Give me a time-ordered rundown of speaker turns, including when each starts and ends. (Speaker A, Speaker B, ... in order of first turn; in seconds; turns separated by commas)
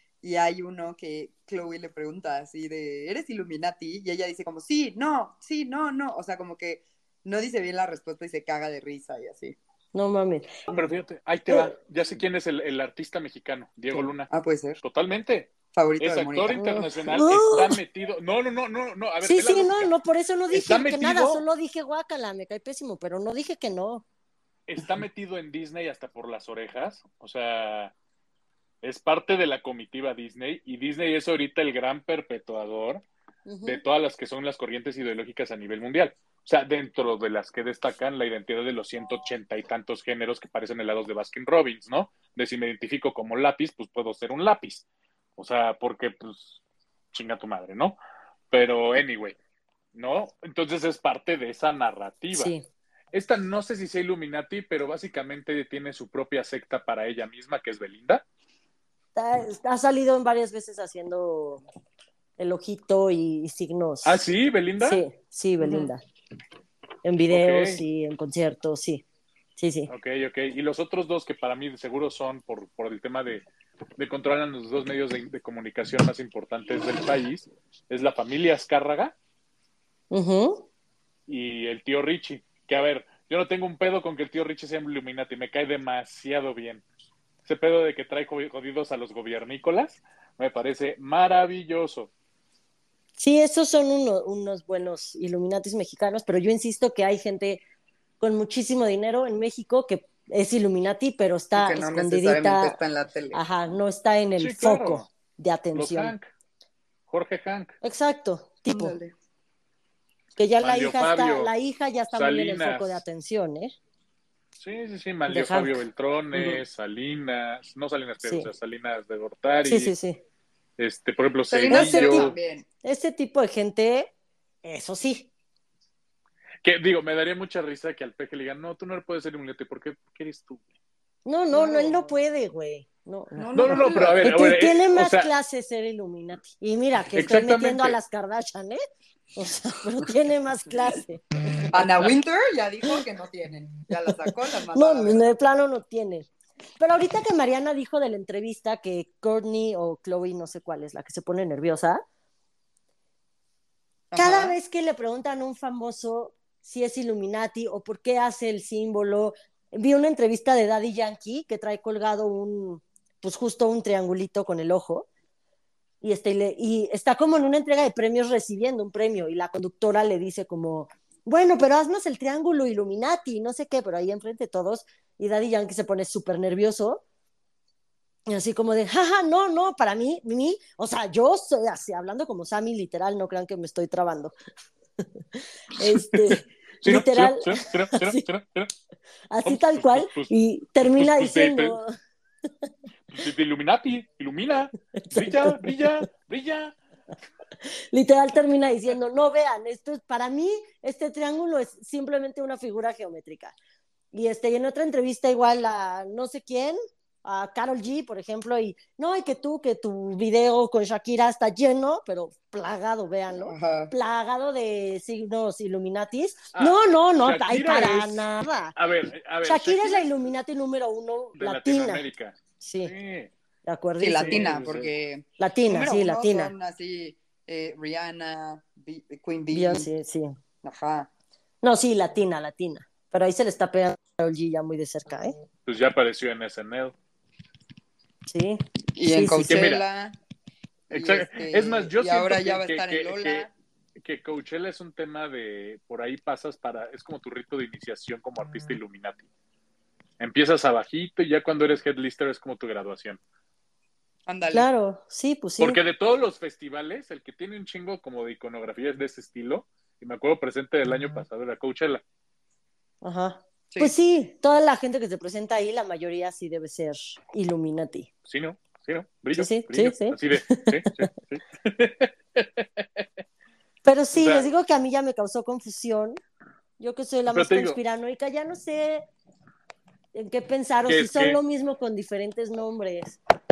Speaker A: 0.2-9.6, Speaker B: 9.9-10.5, Speaker C: 10.7-14.3, Speaker B: 11.5-11.7, Speaker A: 14.3-14.8, Speaker C: 14.8-19.9, Speaker A: 15.7-16.6, Speaker B: 16.5-17.8, Speaker B: 19.2-24.0, Speaker C: 20.5-21.4, Speaker C: 24.7-27.9, Speaker C: 28.8-33.0, Speaker B: 33.5-33.8, Speaker C: 33.6-44.8, Speaker C: 45.4-46.6, Speaker C: 47.1-48.0, Speaker C: 48.5-49.4, Speaker C: 49.9-52.5, Speaker B: 52.3-52.6, Speaker C: 53.1-58.2, Speaker B: 59.1-61.6, Speaker B: 62.4-64.2, Speaker C: 64.0-65.0, Speaker B: 64.8-66.0, Speaker A: 65.6-65.9, Speaker B: 67.0-69.0, Speaker C: 67.3-67.8, Speaker B: 69.6-69.9, Speaker C: 69.9-73.4, Speaker C: 74.0-79.1, Speaker B: 80.1-80.7, Speaker C: 81.3-86.8, Speaker C: 87.4-92.1, Speaker B: 93.2-97.6, Speaker B: 98.2-102.8, Speaker A: 101.5-103.4, Speaker B: 103.3-106.1, Speaker C: 104.4-105.0, Speaker C: 105.7-106.3, Speaker C: 107.1-107.7, Speaker B: 107.8-109.0, Speaker A: 108.7-109.1, Speaker B: 110.3-113.8, Speaker C: 110.6-111.5, Speaker C: 112.1-113.0, Speaker C: 114.6-119.9, Speaker B: 115.3-115.8, Speaker B: 118.2-118.5, Speaker B: 119.6-120.2, Speaker C: 120.8-122.3, Speaker A: 121.5-122.7, Speaker B: 121.7-122.3, Speaker B: 122.8-124.1, Speaker B: 124.6-125.3, Speaker C: 126.6-130.7, Speaker B: 131.2-138.8, Speaker A: 131.5-132.1, Speaker A: 133.3-134.3, Speaker C: 133.5-135.3, Speaker C: 137.1-138.0, Speaker B: 139.3-141.2, Speaker A: 141.7-145.3, Speaker B: 144.7-152.0, Speaker A: 154.1-154.6, Speaker B: 154.2-165.1, Speaker B: 166.0-177.0, Speaker B: 178.3-184.3, Speaker B: 185.7-188.2, Speaker C: 185.8-188.7, Speaker B: 189.3-191.9, Speaker C: 189.4-190.3, Speaker C: 190.9-191.8, Speaker C: 193.1-196.7, Speaker B: 194.9-196.1, Speaker B: 197.6-203.5, Speaker B: 204.1-218.7, Speaker A: 213.4-213.9, Speaker C: 216.5-220.1, Speaker B: 219.4-222.0, Speaker C: 221.4-223.3, Speaker B: 222.6-222.9, Speaker B: 223.6-224.5, Speaker A: 224.0-229.9, Speaker C: 224.2-224.9, Speaker B: 225.4-226.5, Speaker B: 229.5-230.4, Speaker A: 230.6-231.1, Speaker B: 231.6-235.3, Speaker C: 235.7-236.9, Speaker B: 238.3-239.7, Speaker A: 238.9-240.2, Speaker C: 239.4-239.8, Speaker A: 240.9-243.5, Speaker C: 240.9-243.5, Speaker C: 244.0-249.3, Speaker C: 250.2-253.2, Speaker A: 254.2-254.7, Speaker B: 254.5-255.8, Speaker C: 255.6-262.0, Speaker B: 263.0-268.1, Speaker C: 268.2-273.0, Speaker B: 269.3-271.1, Speaker B: 273.8-276.2, Speaker C: 274.1-274.5, Speaker B: 276.8-279.0, Speaker C: 277.3-277.8, Speaker B: 280.1-283.2, Speaker C: 280.8-281.4